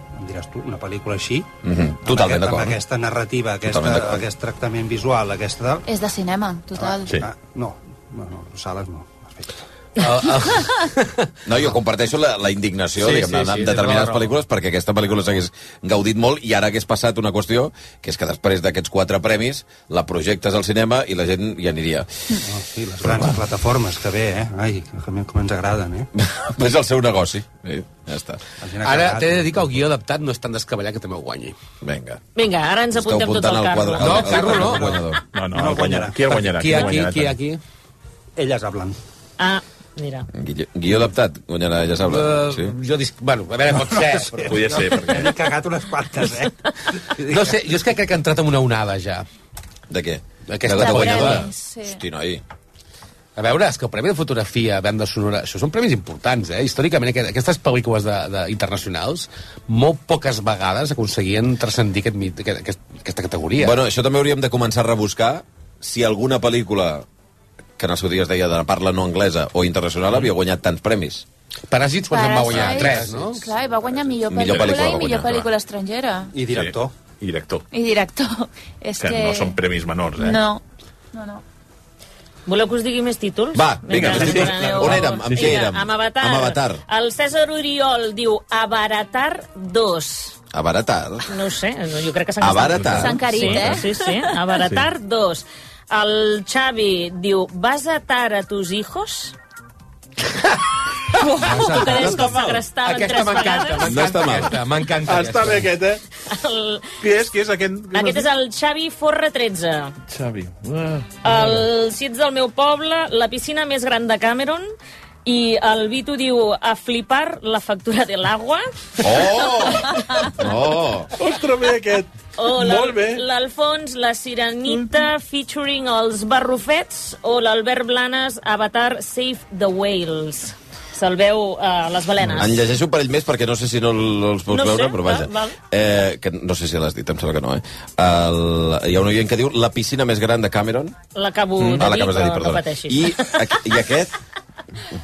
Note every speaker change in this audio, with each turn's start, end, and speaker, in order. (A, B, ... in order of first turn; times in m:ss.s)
0:00.1-0:01.5 A
0:01.6-0:02.8 B
0:02.0-0:05.9 A
0:03.6-0:04.2 B
0:05.8-0:07.2 C
0:06.8-0:09.6 A
0:10.0-0:11.3 D
0:11.4-0:22.1 B
0:13.0-0:14.4 D
0:22.4-0:26.1 A
0:26.2-0:28.4 B
0:28.6-0:29.7 A
0:28.8-0:31.6 D
0:31.8-0:32.2 B
0:32.4-0:34.4 E
0:32.9-0:35.2 B
0:34.0-0:35.0 D
0:34.3-0:37.0 A
0:35.3-0:37.4 F
0:36.3-0:37.6 D
0:38.4-0:39.0 A
0:39.4-0:40.3 E
0:40.3-0:42.7 B
0:42.0-0:44.6 D
0:44.0-0:47.6 A
0:44.4-0:45.3 F
0:47.2-0:49.2 D
0:49.9-0:52.4 B
0:50.5-0:51.5 D
0:50.7-0:52.0 C
0:53.4-1:03.8 D
1:03.6-1:07.0 B
1:07.8-1:11.2 B
1:11.7-1:13.5 D
1:12.1-1:16.4 C
1:14.3-1:15.3 B
1:14.4-1:15.5 F
1:16.3-1:16.9 A
1:16.5-1:17.6 F
1:17.7-1:19.6 C
1:19.0-1:20.4 F
1:20.1-1:21.4 C
1:22.5-1:30.4 E
1:23.5-1:26.8 B
1:23.9-1:25.6 F
1:24.6-1:24.9 C
1:30.5-1:31.3 B
1:31.3-1:39.3 E
1:32.4-1:33.2 B
1:32.9-1:34.3 C
1:33.3-1:33.8 F
1:41.2-1:41.8 C
1:41.5-1:42.1 A
1:41.5-1:44.0 E
1:42.1-1:42.6 F
1:42.8-1:45.7 D
1:43.9-1:44.5 B
1:45.0-1:46.0 F
1:46.3-1:47.0 E
1:47.0-1:48.3 F
1:47.9-1:49.9 E
1:50.1-1:51.6 F
1:51.2-1:54.6 E
1:55.2-2:00.3 E
1:59.0-2:01.1 B
2:01.2-2:03.2 F
2:02.4-2:12.5 E
2:04.7-2:05.0 F
2:12.4-2:21.0 B
2:14.5-2:15.6 E
2:21.1-2:23.6 E
2:21.7-2:24.1 B